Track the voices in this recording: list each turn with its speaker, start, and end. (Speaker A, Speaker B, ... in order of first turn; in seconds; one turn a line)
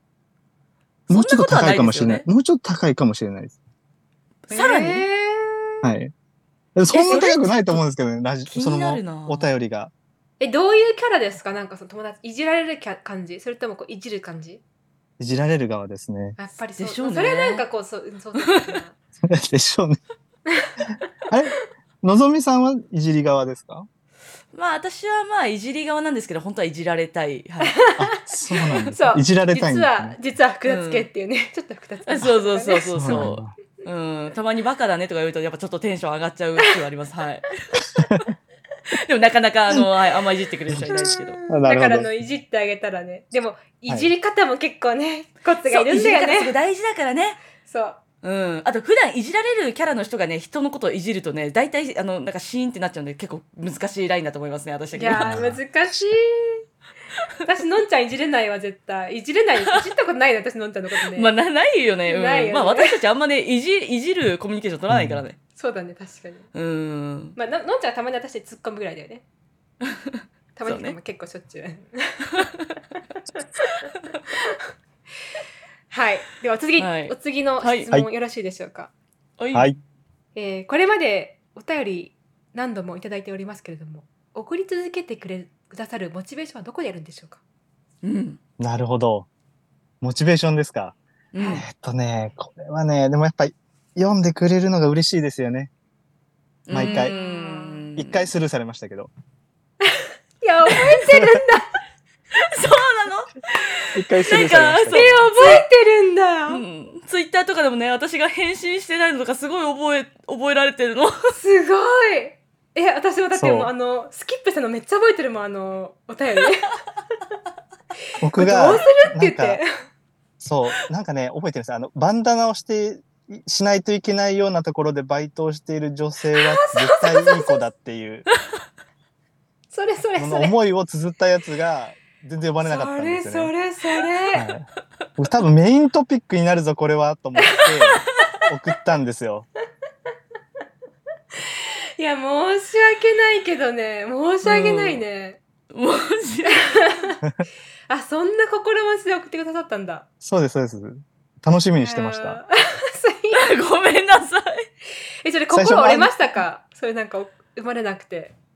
Speaker A: 1.1-3.6
Speaker B: 1.1-2.2
Speaker B: 4.5-5.0
Speaker C: 4.5-5.9
Speaker A: 5.8-6.1
Speaker A: 6.7-9.9
Speaker B: 6.9-7.8
Speaker C: 7.0-7.3
Speaker B: 8.5-9.5
Speaker C: 10.4-14.6
Speaker A: 15.2-16.4
Speaker C: 16.4-18.9
Speaker B: 16.8-17.6
Speaker B: 18.4-18.8
Speaker A: 19.2-20.0
Speaker C: 20.5-20.7
Speaker A: 21.3-23.9
Speaker B: 24.5-27.8
Speaker C: 27.6-33.3
Speaker A: 28.0-30.1
Speaker B: 30.6-31.1
Speaker B: 32.0-37.5
Speaker A: 32.9-33.5
Speaker A: 38.0-38.2
Speaker B: 38.9-41.4
Speaker C: 40.8-46.5
Speaker A: 41.5-42.1
Speaker B: 45.6-47.4
Speaker C: 47.6-48.0
Speaker B: 48.2-55.4
Speaker C: 54.9-56.6
Speaker A: 55.2-55.6
Speaker C: 57.4-61.3
Speaker B: 61.1-65.4
Speaker C: 62.0-63.0
Speaker A: 64.9-65.2
Speaker C: 65.5-66.5
Speaker B: 66.5-67.3
Speaker C: 67.3-69.2
Speaker B: 69.9-71.0
Speaker C: 70.5-72.4
Speaker C: 74.3-74.6
Speaker C: 75.9-78.9
Speaker B: 76.8-77.9
Speaker B: 79.4-79.8
Speaker C: 80.3-87.4
Speaker B: 88.0-88.4
Speaker A: 88.6-89.3
Speaker A: 90.0-91.0
Speaker B: 91.3-91.6
Speaker C: 91.3-91.6
Speaker A: 91.5-95.7
Speaker B: 96.7-98.2
Speaker A: 96.7-97.1
Speaker C: 96.8-97.8
Speaker A: 98.0-99.1
Speaker C: 99.8-101.7
Speaker B: 102.4-105.6
Speaker A: 103.9-105.2
Speaker C: 104.9-106.6
Speaker B: 106.5-111.2
Speaker C: 111.3-116.8
Speaker A: 113.3-113.7
Speaker A: 118.2-119.6
Speaker C: 118.4-119.7
Speaker A: 120.4-128.2
Speaker C: 126.3-127.6
Speaker C: 129.7-130.5
Speaker A: 130.2-133.5
Speaker C: 132.6-134.5
Speaker A: 134.3-134.7
Speaker A: 135.2-139.5
Speaker C: 137.4-137.7
Speaker C: 141.4-145.4
Speaker B: 144.4-145.0
Speaker B: 145.7-146.9
Speaker C: 146.5-147.2
Speaker C: 147.9-150.1
Speaker A: 150.2-152.4
Speaker C: 151.8-153.5
Speaker B: 153.3-154.7
Speaker C: 155.2-158.3
Speaker A: 155.5-156.3